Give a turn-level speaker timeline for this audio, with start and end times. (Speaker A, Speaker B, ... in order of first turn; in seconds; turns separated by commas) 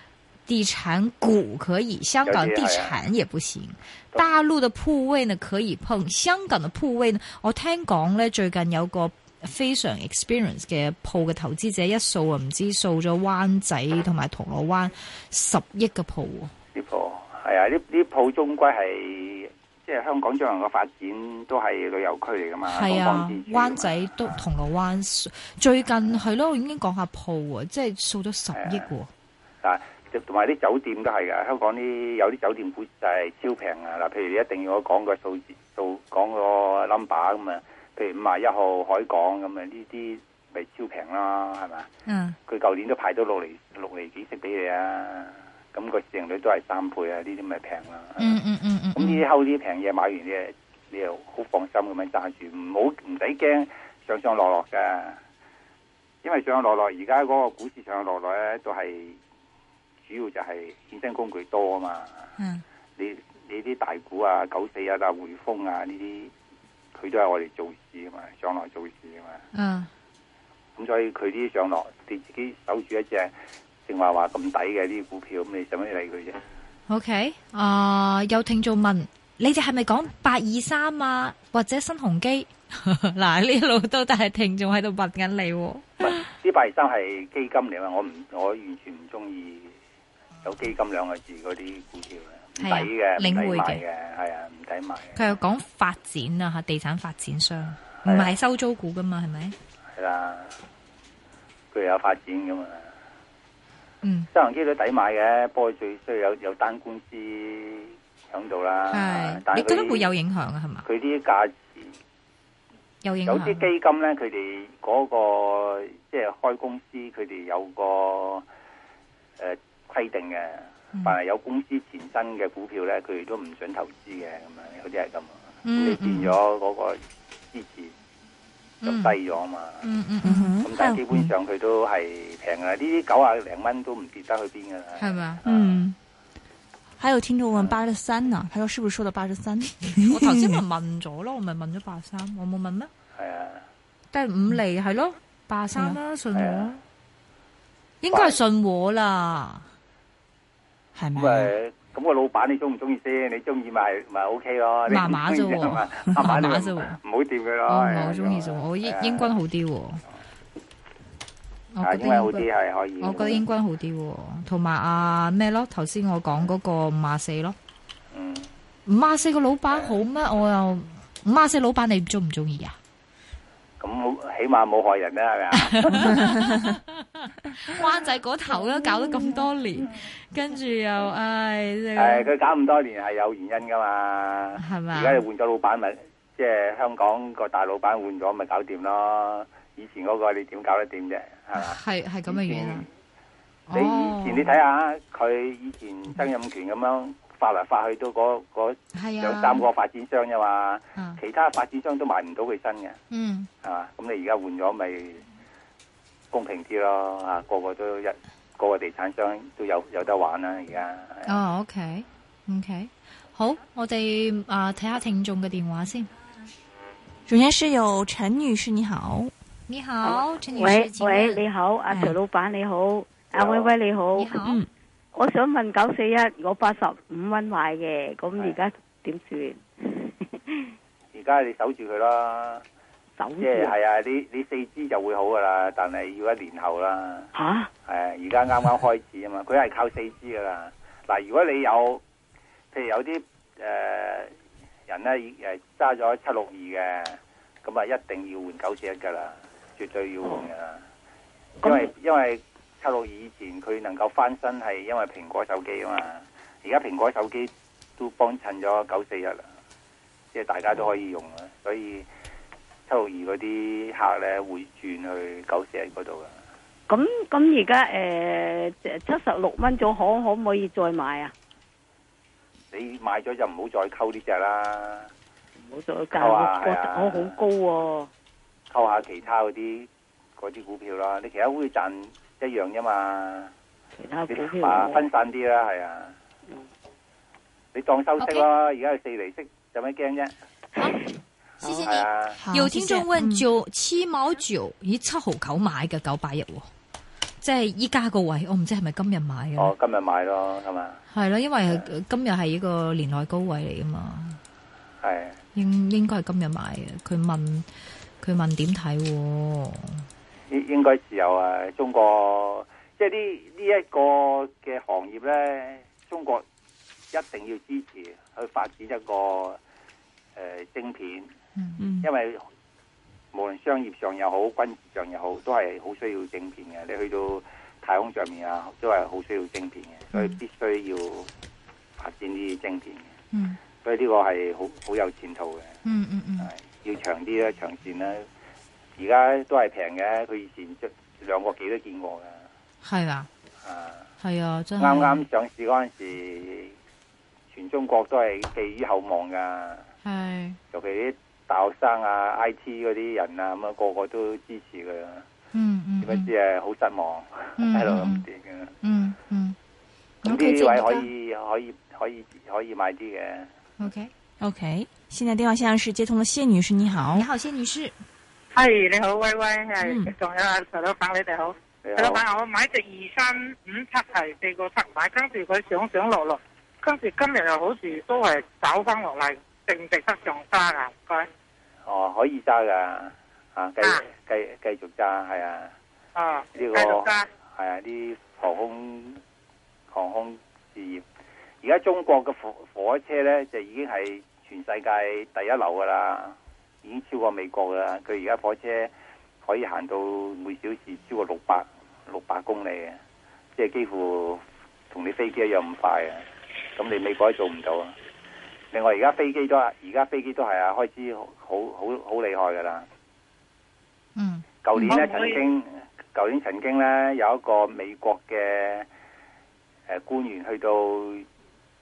Speaker A: 0.5-16.5, Speaker B: 2.2-3.0, Speaker B: 16.7-24.4, Speaker A: 22.7-29.1, Speaker B: 28.5-28.9, Speaker B: 29.6-41.9, Speaker A: 42.0-42.4, Speaker B: 42.5-48.4, Speaker A: 48.2-49.2, Speaker B: 48.9-55.2, Speaker B: 56.2-59.2, Speaker B: 60.0-62.3, Speaker A: 62.4-62.6, Speaker B: 63.0-66.3, Speaker B: 66.9-69.4, Speaker A: 69.5-69.9, Speaker B: 70.8-73.3, Speaker B: 73.9-76.4, Speaker A: 76.9-86.2, Speaker B: 86.0-89.7, Speaker B: 90.4-95.2, Speaker A: 92.6-93.8, Speaker A: 95.1-99.5, Speaker B: 98.0-98.3, Speaker B: 100.0-100.5, Speaker B: 101.7-102.9, Speaker A: 104.0-104.3, Speaker B: 104.3-110.1, Speaker A: 108.9-110.8, Speaker B: 110.8-111.9, Speaker A: 113.0-113.7, Speaker B: 113.2-118.4, Speaker B: 119.4-127.0, Speaker A: 125.6-126.3, Speaker B: 127.5-127.9, Speaker A: 128.8-129.1, Speaker B: 128.8-129.9, Speaker A: 129.8-130.6, Speaker C: 130.2-131.3, Speaker B: 130.6-135.8, Speaker A: 135.0-135.4, Speaker C: 135.4-135.9, Speaker C: 137.0-140.6, Speaker A: 139.9-142.9, Speaker B: 143.1-143.6, Speaker A: 144.1-146.8, Speaker B: 146.3-146.7, Speaker A: 148.0-149.7, Speaker B: 148.1-148.3, Speaker C: 150.9-151.5, Speaker B: 151.1-159.4, Speaker A: 154.9-157.0, Speaker A: 157.7-160.0, Speaker A: 161.7-162.4, Speaker B: 161.8-163.4, Speaker A: 163.0-167.6, Speaker B: 168.1-168.5, Speaker A: 168.8-172.8, Speaker B: 169.7-169.9, Speaker B: 173.8-176.3, Speaker A: 175.5-182.3, Speaker B: 181.9-192.9, Speaker A: 184.6-185.2, Speaker A: 191.5-192.8, Speaker A: 193.7-194.5, Speaker B: 193.7-203.0, Speaker A: 198.9-199.7, Speaker A: 203.1-203.5, Speaker B: 203.6-205.2, Speaker B: 206.3-211.3, Speaker A: 211.3-216.1, Speaker C: 217.3-219.3, Speaker A: 219.7-221.4, Speaker D: 220.0-224.3, Speaker C: 221.9-222.2, Speaker B: 223.3-223.7, Speaker A: 224.1-224.6, Speaker C: 224.4-224.7, Speaker D: 225.1-230.7, Speaker B: 231.1-232.6, Speaker D: 233.2-233.7, Speaker B: 233.4-237.3, Speaker D: 237.3-237.7, Speaker B: 237.9-242.0, Speaker B: 242.7-244.3, Speaker B: 244.9-250.8, Speaker B: 251.6-259.4, Speaker B: 260.3-262.1, Speaker B: 262.9-266.3, Speaker D: 266.9-271.3, Speaker B: 272.7-275.1, Speaker D: 275.6-278.1, Speaker B: 276.1-277.4, Speaker B: 278.7-283.5, Speaker D: 284.0-285.0, Speaker B: 284.3-286.1, Speaker B: 287.7-290.3, Speaker A: 288.2-288.4, Speaker A: 291.6-296.7, Speaker D: 291.6-291.9, Speaker B: 291.8-292.4, Speaker C: 292.4-293.4, Speaker A: 297.4-299.7, Speaker B: 299.6-301.0, Speaker A: 301.1-304.4, Speaker B: 305.0-305.4, Speaker A: 305.5-307.6, Speaker A: 308.2-310.0, Speaker B: 310.5-316.4, Speaker B: 317.1-319.6, Speaker B: 320.4-321.3, Speaker A: 321.6-321.8, Speaker C: 321.8-322.1, Speaker B: 322.0-322.4, Speaker B: 323.3-331.3, Speaker B: 332.0-333.1, Speaker A: 333.3-333.6, Speaker B: 333.8-335.7, Speaker A: 335.8-336.5, Speaker B: 336.4-338.2, Speaker B: 339.0-342.4, Speaker A: 342.8-343.3, Speaker B: 343.6-344.1, Speaker A: 344.2-345.2, Speaker B: 344.8-346.7, Speaker B: 347.5-349.9, Speaker A: 350.0-350.6, Speaker B: 350.7-355.2, Speaker A: 355.5-356.3, Speaker B: 356.0-358.7, Speaker A: 357.6-358.2, Speaker A: 358.8-359.6, Speaker A: 360.2-361.1, Speaker B: 360.2-363.5, Speaker A: 363.8-364.1, Speaker C: 364.4-367.3, Speaker A: 367.1-367.9, Speaker E: 368.5-381.3, Speaker C: 369.8-370.1, Speaker B: 371.8-372.2, Speaker B: 381.9-385.7, Speaker E: 386.1-387.3, Speaker B: 386.5-389.2, Speaker B: 389.9-391.0, Speaker B: 391.6-398.9, Speaker B: 399.4-403.0, Speaker B: 403.6-406.2, Speaker B: 406.8-407.9, Speaker B: 408.7-412.9, Speaker A: 414.1-414.4, Speaker B: 414.6-418.9, Speaker E: 414.8-415.4, Speaker B: 419.9-421.2